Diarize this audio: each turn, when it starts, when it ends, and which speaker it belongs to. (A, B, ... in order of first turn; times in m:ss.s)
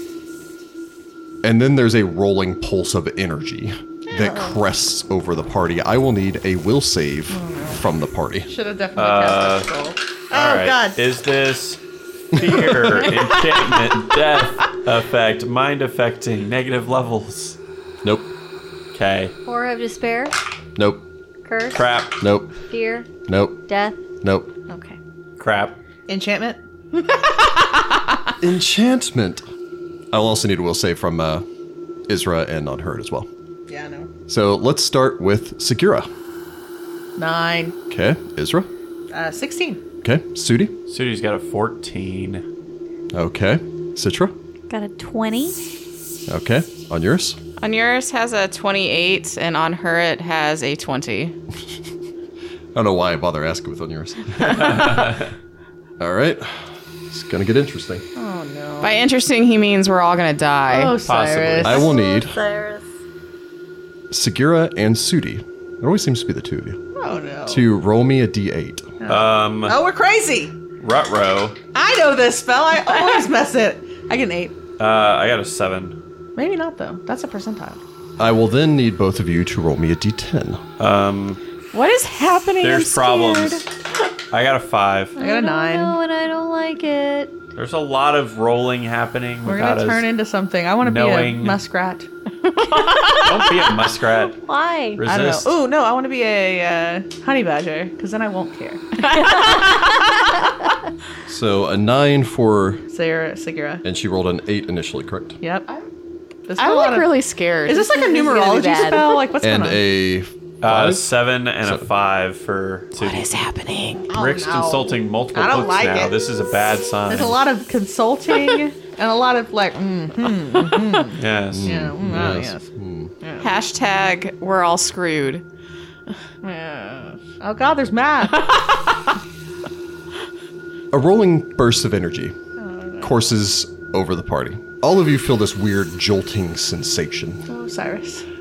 0:01.4-0:08.5 A
0:07.3-0:07.8 B
0:08.5-0:11.0 B
0:08.9-0:09.7 C
0:10.3-0:11.8 C
0:12.3-0:17.6 C
0:12.3-0:13.1 A
0:18.0-0:18.3 A
0:18.9-0:19.3 C
0:19.4-0:20.3 D
0:20.8-0:21.0 A
0:21.4-0:21.9 D
0:21.7-0:22.2 C
0:22.2-0:22.5 A
0:22.7-0:23.1 D
0:23.3-0:23.6 A
0:23.7-0:24.0 D
0:24.2-0:24.5 A
0:24.7-0:25.0 D
0:25.4-0:25.8 C
0:26.1-0:26.6 B
0:28.4-0:29.4 A
0:30.1-0:31.4 A
0:32.1-0:33.3 A
0:33.7-0:34.1 B
0:34.3-0:36.1 A
0:37.2-0:37.7 B
0:37.9-0:38.7 A
0:39.1-0:39.8 B
0:40.0-0:40.8 A
0:40.9-0:42.4 C
0:43.1-0:44.3 A
0:44.7-0:45.6 D
0:46.3-0:47.4 A
0:47.6-0:51.3 E
0:52.7-0:55.2 A
0:54.4-0:55.3 C
0:56.0-0:56.6 A
0:57.1-0:58.0 A
0:58.2-0:59.0 B
0:58.8-1:01.0 E
1:00.7-1:02.0 B
1:01.0-1:01.9 C
1:01.6-1:02.4 A
1:01.8-1:02.8 D
1:04.1-1:06.8 A
1:06.9-1:07.6 B
1:07.5-1:08.9 A
1:09.0-1:10.5 B
1:09.1-1:09.8 C
1:10.8-1:11.6 C
1:11.7-1:14.6 B
1:14.8-1:16.0 C
1:16.4-1:17.8 B
1:18.2-1:20.6 A
1:20.8-1:21.4 C
1:21.7-1:23.6 E
1:22.6-1:23.7 C
1:24.3-1:25.2 C
1:25.2-1:27.3 D
1:25.2-1:26.0 B
1:27.5-1:30.1 C
1:29.4-1:32.1 B
1:30.8-1:31.6 C
1:32.4-1:33.4 E
1:33.2-1:34.3 C
1:34.1-1:35.0 D
1:35.0-1:35.5 C
1:35.0-1:39.5 B
1:39.1-1:39.7 E
1:41.3-1:42.8 A
1:42.9-1:43.8 B
1:43.8-1:45.4 A
1:45.4-1:45.8 B
1:46.5-1:47.1 B
1:46.6-1:47.8 E
1:47.6-1:49.8 B
1:47.7-1:49.2 D
1:49.4-1:51.0 A
1:50.6-1:53.3 C
1:53.0-1:54.1 E
1:54.1-1:56.3 B
1:54.1-1:57.4 C
1:57.1-2:02.6 B
2:01.2-2:01.9 C
2:01.5-2:03.1 A
2:03.3-2:05.4 E
2:06.4-2:08.8 B
2:10.9-2:12.3 A
2:12.6-2:13.2 B
2:13.0-2:17.4 A
2:17.5-2:18.2 B